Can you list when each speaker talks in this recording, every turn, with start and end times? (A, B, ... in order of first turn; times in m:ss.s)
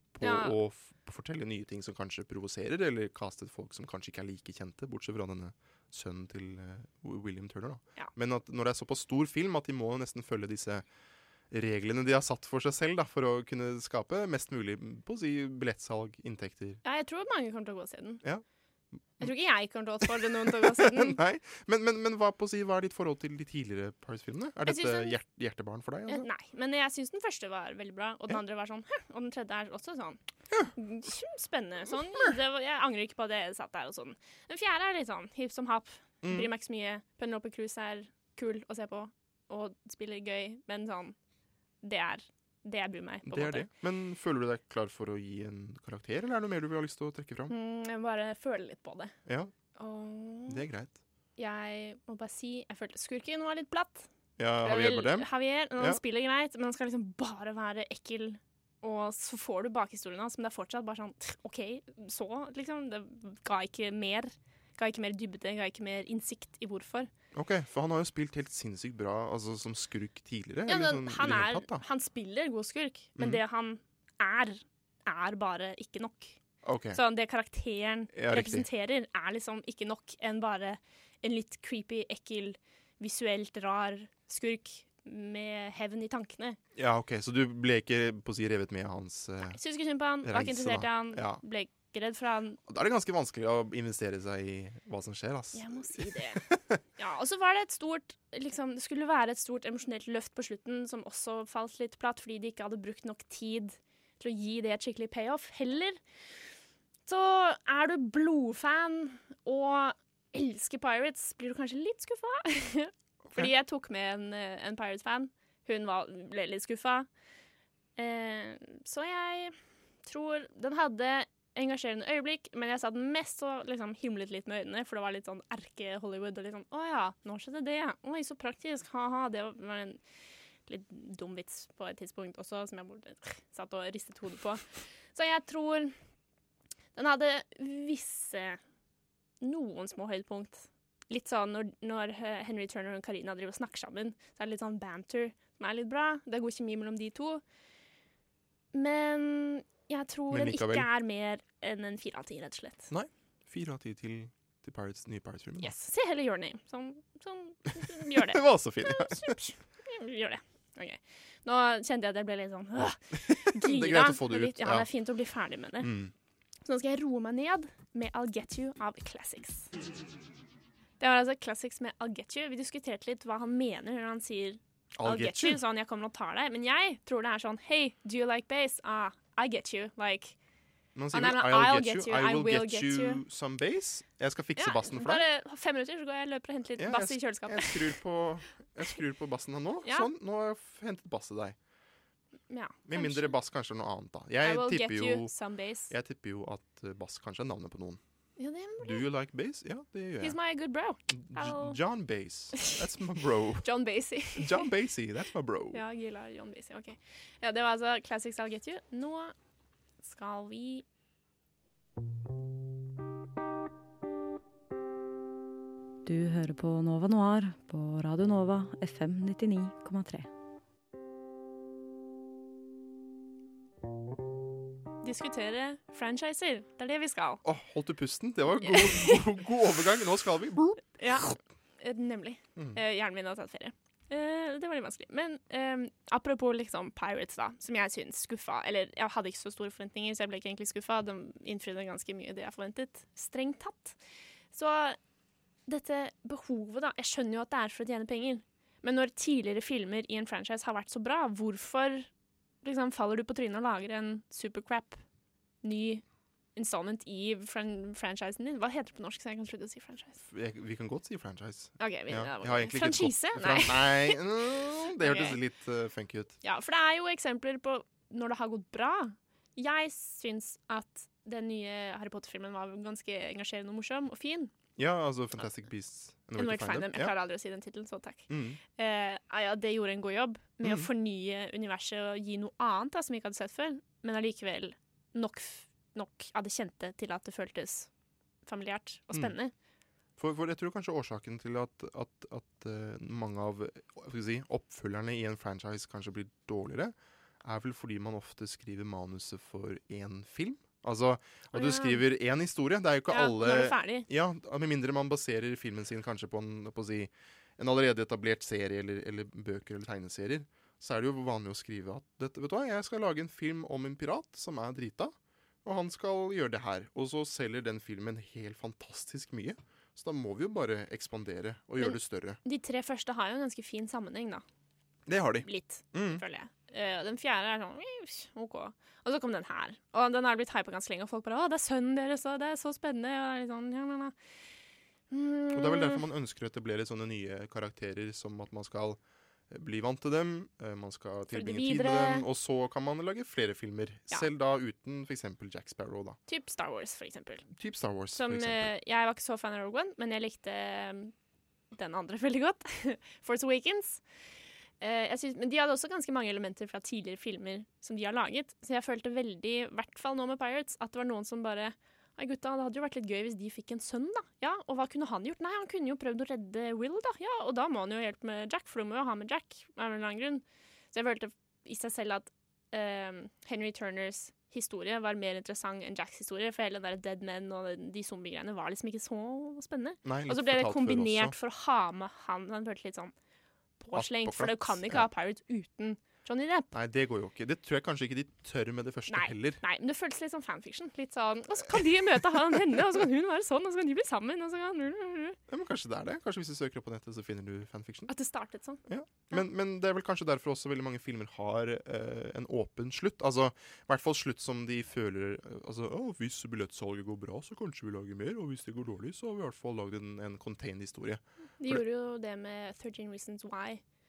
0:00.1-0:10.9 A
0:00.2-0:00.6 B
0:11.5-0:16.8 A
0:16.8-0:18.2 B
0:19.2-0:21.2 B
0:20.1-0:26.3 A
0:24.7-0:25.2 B
0:26.1-0:30.2 B
0:30.8-0:41.2 B
0:36.2-0:36.5 A
0:41.8-0:43.7 B
0:43.2-0:47.5 A
0:47.5-0:49.1 B
0:49.3-0:49.5 A
0:49.8-0:50.7 B
0:50.5-0:51.0 A
0:51.4-0:54.1 B
0:54.4-0:56.0 A
0:54.6-1:07.1 B
1:07.3-1:11.8 A
1:10.7-1:16.4 B
1:13.2-1:13.4 A
1:16.6-1:17.0 A
1:16.9-1:26.6 B
1:18.1-1:18.7 A
1:26.8-1:29.6 A
1:29.5-1:32.6 B
1:30.2-1:31.4 A
1:32.7-1:36.8 A
1:35.5-1:46.0 B
1:47.1-1:57.1 B
1:53.3-1:53.5 A
1:58.0-2:10.0 B
2:10.7-2:14.6 B
2:15.1-2:15.9 B
2:17.0-2:18.6 B
2:19.4-2:27.4 B
2:28.7-2:32.9 B
2:30.3-2:30.9 A
2:32.9-2:35.7 A
2:35.6-2:45.9 B
2:38.1-2:39.4 A
2:43.1-2:44.9 A
2:45.8-2:46.1 A
2:46.6-2:49.7 B
2:51.0-3:00.4 B
2:55.0-2:55.6 A
3:01.0-3:05.2 A
3:01.1-3:03.2 B
3:04.6-3:07.9 B
3:06.8-3:11.6 A
3:09.8-3:10.1 B
3:12.5-3:13.4 B
3:12.9-3:15.3 A
3:14.4-3:15.9 B
3:15.9-3:18.0 A
3:18.4-3:19.1 B
3:18.8-3:20.4 A
3:20.2-3:21.8 B
3:21.1-3:23.7 A
3:23.6-3:24.7 B
3:24.4-3:25.8 A
3:25.7-3:29.3 B
3:30.0-3:30.8 B
3:36.1-3:40.3 C
3:45.0-3:47.4 B
3:47.4-3:50.8 A
3:48.6-3:49.2 B
3:51.0-4:04.0 B
4:04.5-4:05.0 B
4:05.7-4:12.1 B
4:12.6-4:15.0 B
4:15.6-4:16.0 B
4:16.6-4:20.2 B
4:20.2-4:26.4 A
4:21.8-4:25.4 B
4:26.4-4:34.5 B
4:34.8-4:37.1 A
4:36.4-4:47.9 B
4:38.3-4:38.6 A
4:48.5-4:49.5 B
4:50.2-5:22.4 A
5:01.5-5:02.0 B
5:03.1-5:04.1 B
5:21.8-5:24.4 B
5:25.1-5:26.2 A
5:25.4-5:34.2 B
5:35.1-5:36.0 B
5:35.5-5:39.0 A
5:39.5-5:46.2 A
5:41.3-5:42.3 B
5:46.3-5:47.5 B
5:47.5-5:48.7 A
5:48.1-5:51.1 B
5:51.7-5:54.0 B
5:54.8-6:23.1 B
6:20.0-6:21.4 A
6:23.8-6:26.7 B
6:23.9-6:25.1 A
6:26.7-6:29.6 A
6:29.1-6:35.4 B
6:35.5-6:38.1 A
6:38.1-6:39.4 B
6:38.9-6:51.8 A
6:51.6-6:53.8 B